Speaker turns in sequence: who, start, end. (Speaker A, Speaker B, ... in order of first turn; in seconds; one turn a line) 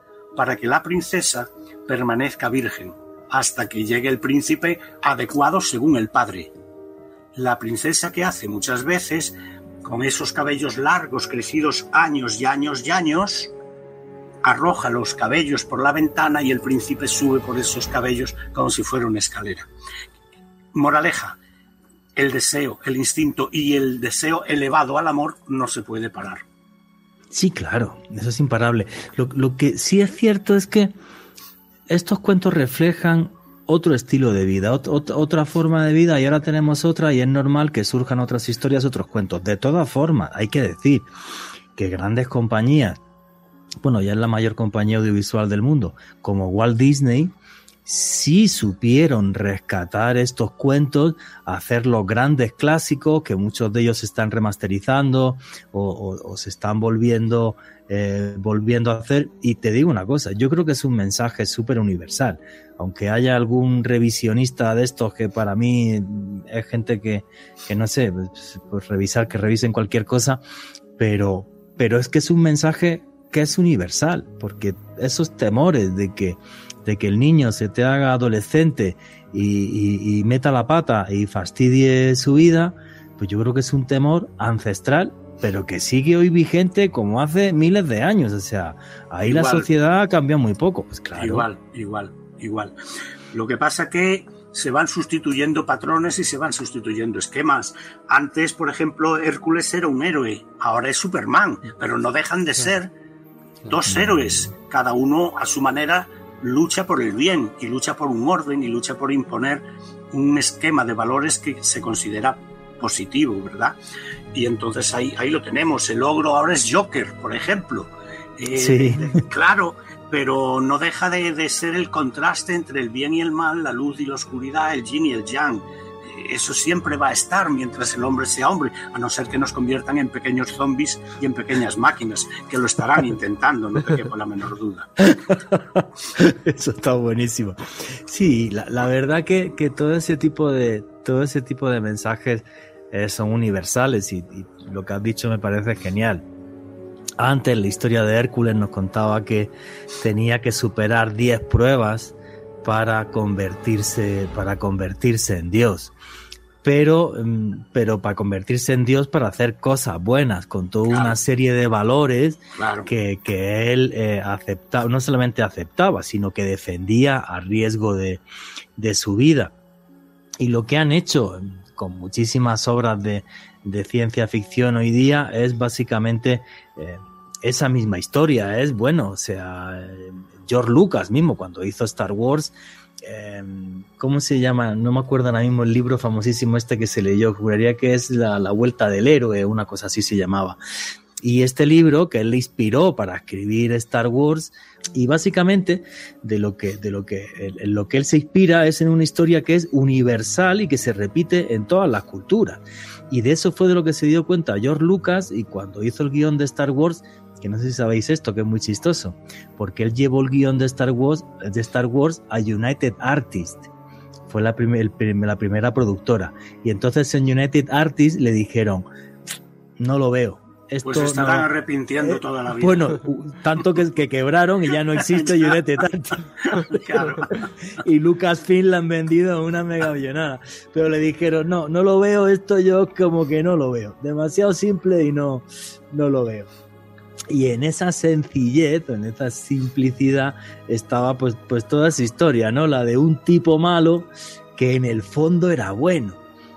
Speaker A: 0.3-6.5
Speaker A: 7.4-13.5
Speaker A: 14.4-19.7
Speaker A: 20.7-21.4
Speaker A: 22.1-26.4
Speaker B: 27.3-30.9
Speaker B: 31.9-41.1
Speaker B: 41.8-43.0
Speaker B: 43.8-47.3
Speaker B: 47.9-70.4
Speaker B: 71.0-91.5
Speaker A: 89.3-89.7
Speaker A: 91.2-92.7
Speaker A: 93.3-102.9
Speaker A: 103.7-113.8
Speaker A: 114.3-134.9
Speaker B: 118.6-119.2
Speaker B: 135.0-146.2
Speaker B: 147.2-155.9
Speaker B: 156.6-168.2
Speaker A: 160.9-161.2
Speaker A: 162.6-162.9
Speaker B: 168.8-169.5
Speaker B: 170.4-190.6
Speaker B: 191.2-213.7
Speaker B: 214.3-218.8
Speaker B: 219.8-221.5
Speaker A: 220.8-223.0
Speaker B: 222.0-227.2
Speaker A: 225.1-225.6
Speaker A: 226.4-227.4
Speaker B: 227.8-236.5
Speaker B: 237.3-246.2